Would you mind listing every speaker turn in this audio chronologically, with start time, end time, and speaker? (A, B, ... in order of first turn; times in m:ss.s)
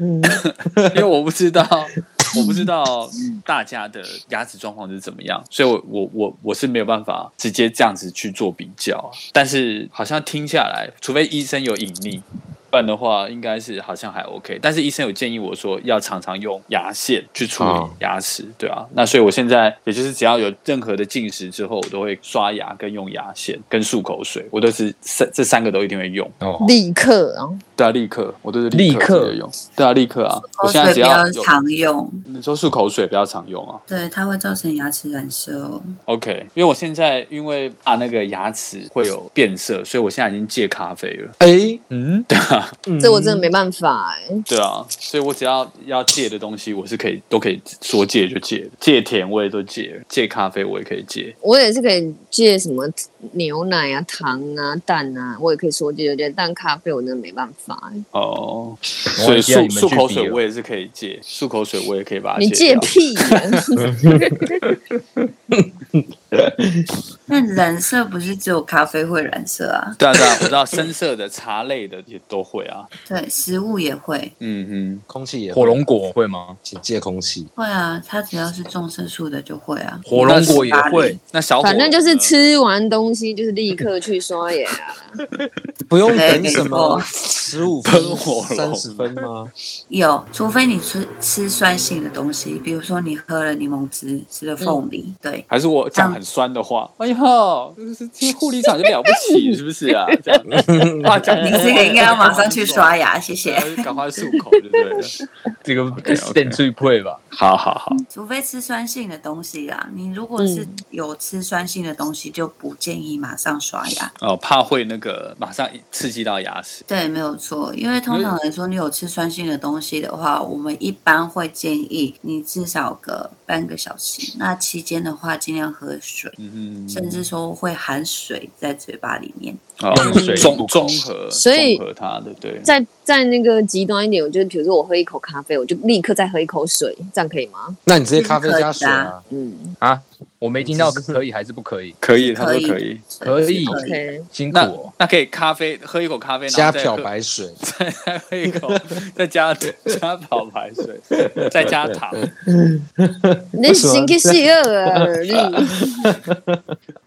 0:00.2-0:26.4 A
0:00.8-0:01.0 B
0:17.6-0:18.0 B
0:26.4-0:26.8 C
0:26.6-0:27.6 D
0:27.8-0:31.5 A
0:28.7-0:29.4 C
0:30.5-0:32.2 E
0:32.3-0:33.8 A
0:33.9-0:36.0 E
0:36.1-0:41.4 A
0:41.4-0:41.8 B
0:41.9-0:42.7 A
0:42.9-0:43.5 B
0:43.0-0:44.5 D
0:44.5-0:51.4 A
0:51.4-0:58.0 D
0:58.1-1:03.6 A
0:59.2-1:00.4 C
1:02.4-1:04.5 D
1:03.9-1:04.7 B
1:05.5-1:06.9 B
1:07.3-1:10.0 E
1:10.0-1:12.9 A
1:13.1-1:14.4 E
1:14.4-1:15.0 A
1:15.1-1:15.9 B
1:15.5-1:16.6 C
1:16.6-1:17.5 B
1:17.6-1:21.2 E
1:20.1-1:21.2 C
1:20.2-1:20.6 A
1:21.2-1:22.3 A
1:21.6-1:25.2 D
1:25.9-1:29.5 B
1:26.1-1:27.1 E
1:26.1-1:29.1 A
1:29.9-1:36.2 E
1:35.5-1:46.6 A
1:39.1-1:39.4 D
1:40.5-1:41.2 B
1:41.3-1:43.7 E
1:45.7-1:47.2 C
1:47.3-1:48.0 A
1:48.1-1:54.1 E
1:50.4-1:50.8 D
1:54.2-1:56.8 A
1:56.9-2:06.4 E
2:06.4-2:07.2 A
2:06.9-2:09.7 E
2:09.8-2:12.7 A
2:09.9-2:11.0 C
2:10.0-2:10.6 D
2:11.3-2:11.8 D
2:12.6-2:17.8 D
2:17.9-2:19.2 B
2:18.2-2:19.1 E
2:19.3-2:19.8 D
2:19.8-2:22.0 C
2:20.6-2:21.2 B
2:22.0-2:23.1 A
2:22.2-2:24.1 E
2:23.2-2:23.8 C
2:23.6-2:24.3 D
2:24.3-2:24.9 C
2:24.5-2:27.1 A
2:26.5-2:27.6 B
2:27.6-2:32.2 A
2:31.2-2:34.4 B
2:33.6-2:35.8 D
2:35.9-2:36.6 B